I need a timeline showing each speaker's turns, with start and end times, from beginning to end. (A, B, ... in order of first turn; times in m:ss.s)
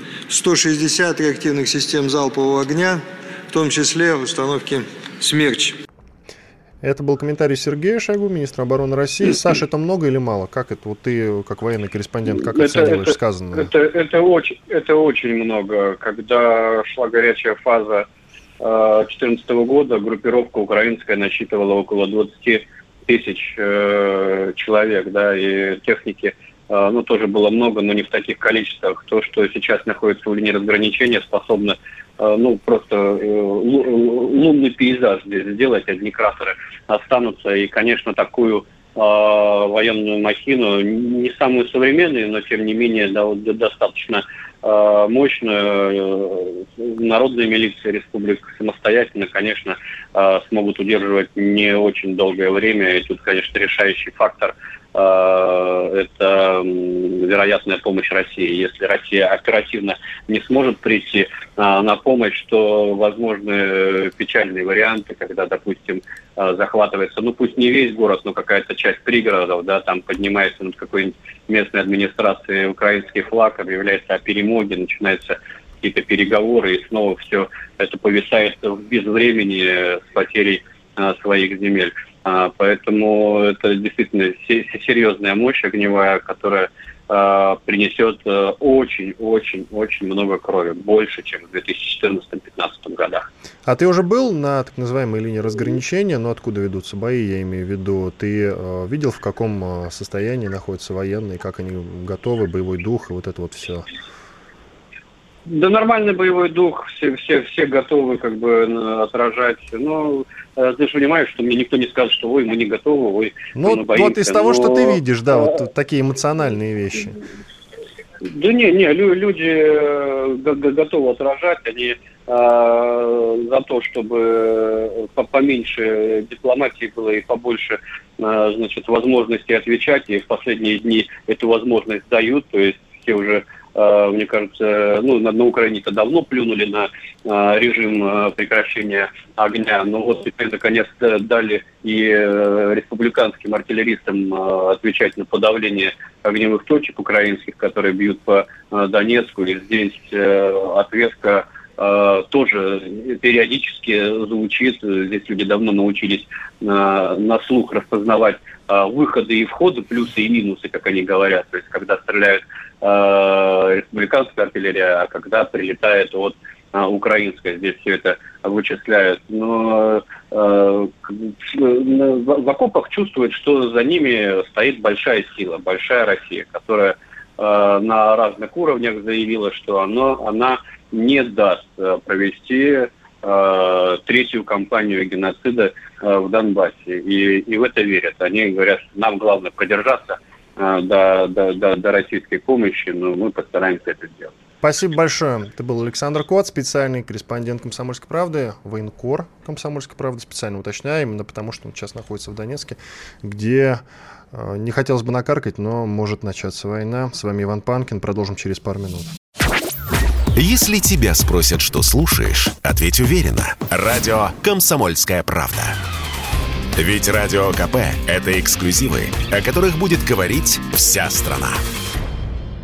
0:00.3-0:05.8 A
0:06.8-0:13.7 B
0:12.3-0:18.0 C
0:18.6-1:33.3 C
1:33.6-1:43.9 B
1:45.5-1:55.0 C
1:53.5-1:57.2 B
1:58.2-3:14.3 C
3:14.6-3:29.1 B
3:30.3-3:35.8 D
3:36.8-3:41.6 D